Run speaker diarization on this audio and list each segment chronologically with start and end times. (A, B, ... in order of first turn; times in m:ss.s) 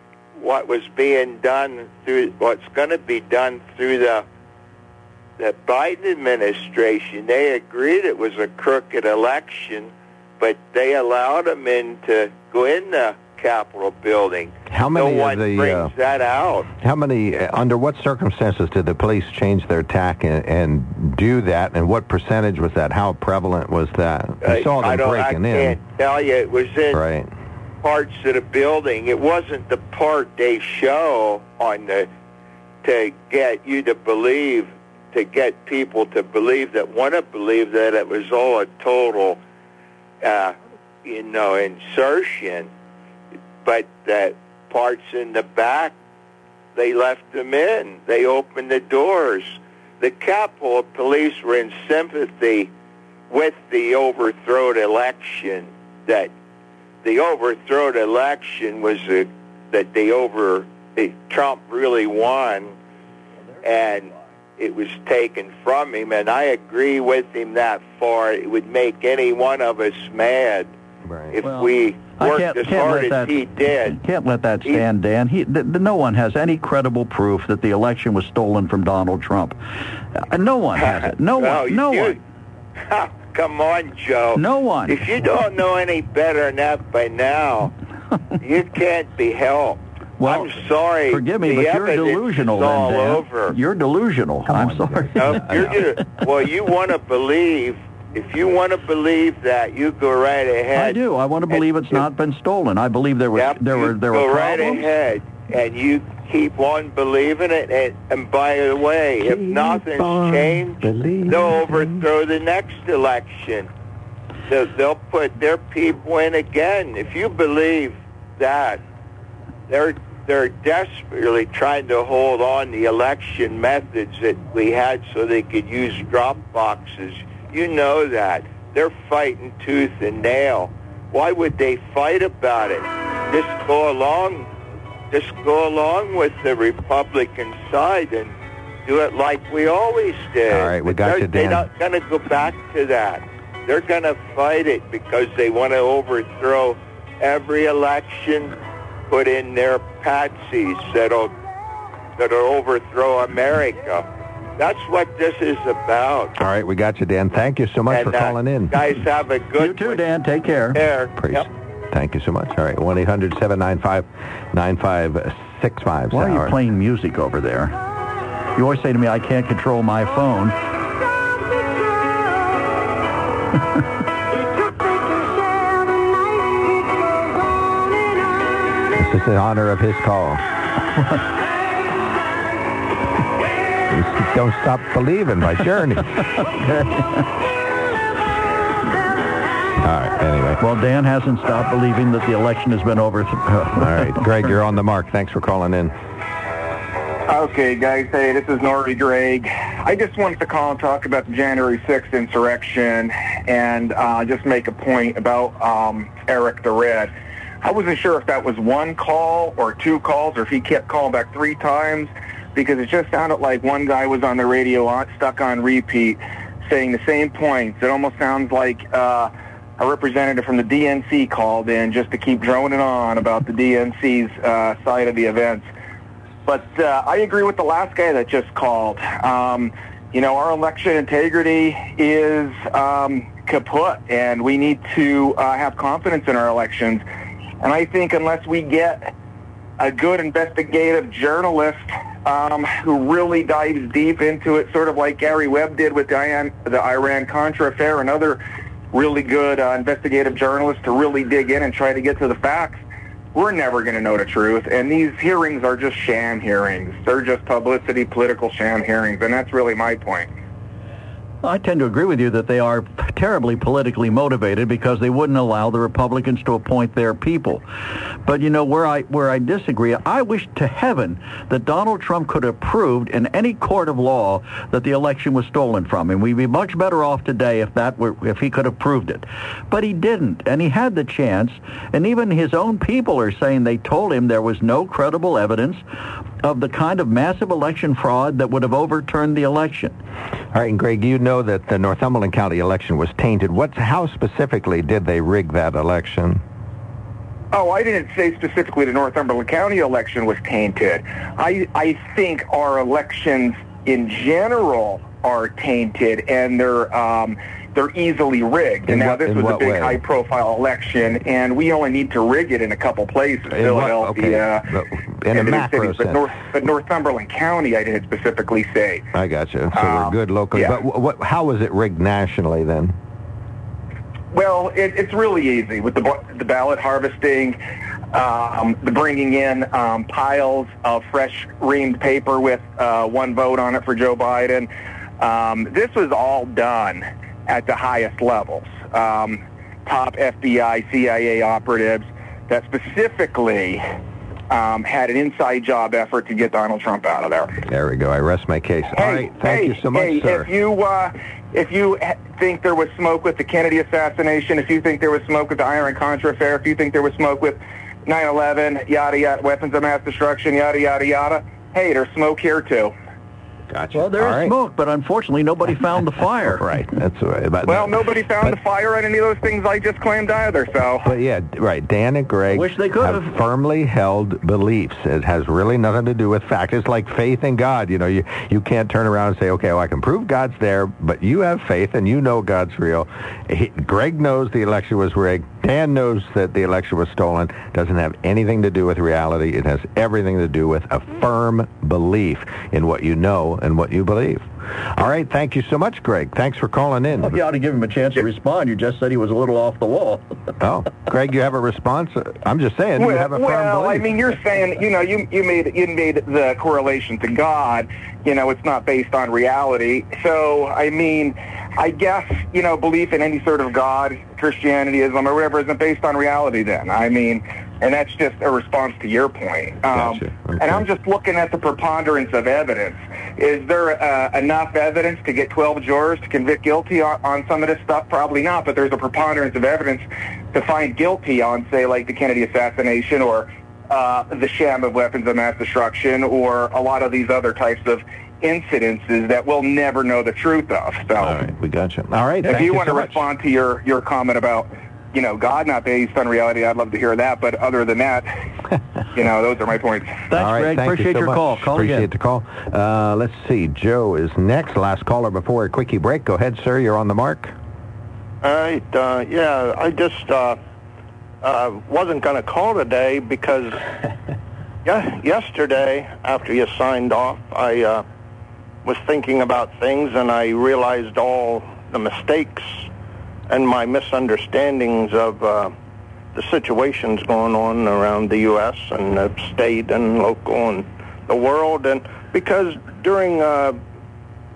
0:00.4-0:04.2 A
0:05.4-0:16.7 A
0:14.7-0:15.9 B
0:16.7-0:25.8 B
0:24.4-0:27.0 A
0:26.9-0:27.3 B
0:27.8-0:32.1 A
0:32.8-0:39.4 A
0:40.2-0:42.7 A
0:43.6-0:45.9 A
0:46.7-0:52.7 A
0:53.3-0:56.3 A
0:57.0-1:02.8 A
1:03.6-1:10.7 A
1:11.0-1:11.4 B
1:11.3-1:14.0 A
1:11.4-1:19.6 C
1:20.2-1:22.2 C
1:20.8-1:22.2 A
1:22.9-1:27.7 A
1:24.3-1:25.0 C
1:28.4-1:33.6 A
1:30.2-1:30.5 C
1:31.1-1:35.8 C
1:34.5-1:35.8 B
1:35.2-1:41.0 A
1:40.7-1:44.9 C
1:41.5-1:42.0 A
1:43.3-1:53.7 A
1:49.2-1:52.0 B
1:54.5-1:58.8 A
1:59.7-2:14.5 A
2:15.1-2:18.3 A
2:18.8-2:28.6 A
2:20.5-2:21.7 B
2:29.1-2:31.3 A
2:32.2-2:34.0 A
2:34.6-2:36.3 A
2:36.4-2:38.9 B
2:37.9-2:40.0 A
2:39.6-2:40.8 C
2:40.7-2:41.5 A
2:41.2-2:46.6 B
2:46.1-2:47.7 C
2:48.6-2:50.6 C
2:58.9-3:00.4 B
3:03.9-3:06.2 B
3:06.6-3:07.1 C
3:09.8-3:10.6 B
3:10.6-3:14.5 C
3:13.8-3:15.9 B
3:17.3-3:45.7 D
3:46.4-3:57.0 D
3:57.6-3:59.1 D
3:59.8-4:08.4 D
4:08.9-4:12.8 D
4:13.3-4:20.3 D
4:21.4-4:27.6 C
4:28.2-4:45.8 C
4:46.4-4:49.9 C
4:50.5-4:56.4 B
4:57.5-5:14.7 D
5:08.9-5:10.0 B
5:13.5-5:16.2 B
5:15.3-5:19.0 D
5:19.1-5:22.9 B
5:19.7-5:20.8 D
5:24.3-5:27.6 D
5:28.1-5:43.9 D
5:44.5-5:47.6 D
5:47.6-5:50.5 B
5:48.9-6:02.9 D
6:03.7-6:04.5 B
6:03.9-6:06.6 C
6:06.5-6:08.5 B
6:07.6-6:11.1 D
6:11.0-6:37.4 B
6:12.5-6:13.3 C
6:37.2-6:40.2 C
6:40.6-6:44.1 B
6:43.0-7:21.4 D
6:59.9-7:00.8 B
7:21.2-7:23.2 B
7:22.4-7:28.3 D
7:29.1-7:30.2 D
7:30.3-7:32.1 C
7:30.3-7:37.5 B
7:38.4-7:40.6 E
7:41.4-7:43.8 E
7:44.8-7:48.0 E
7:48.8-7:52.9 E
7:53.5-7:55.7 E
7:56.3-8:03.8 E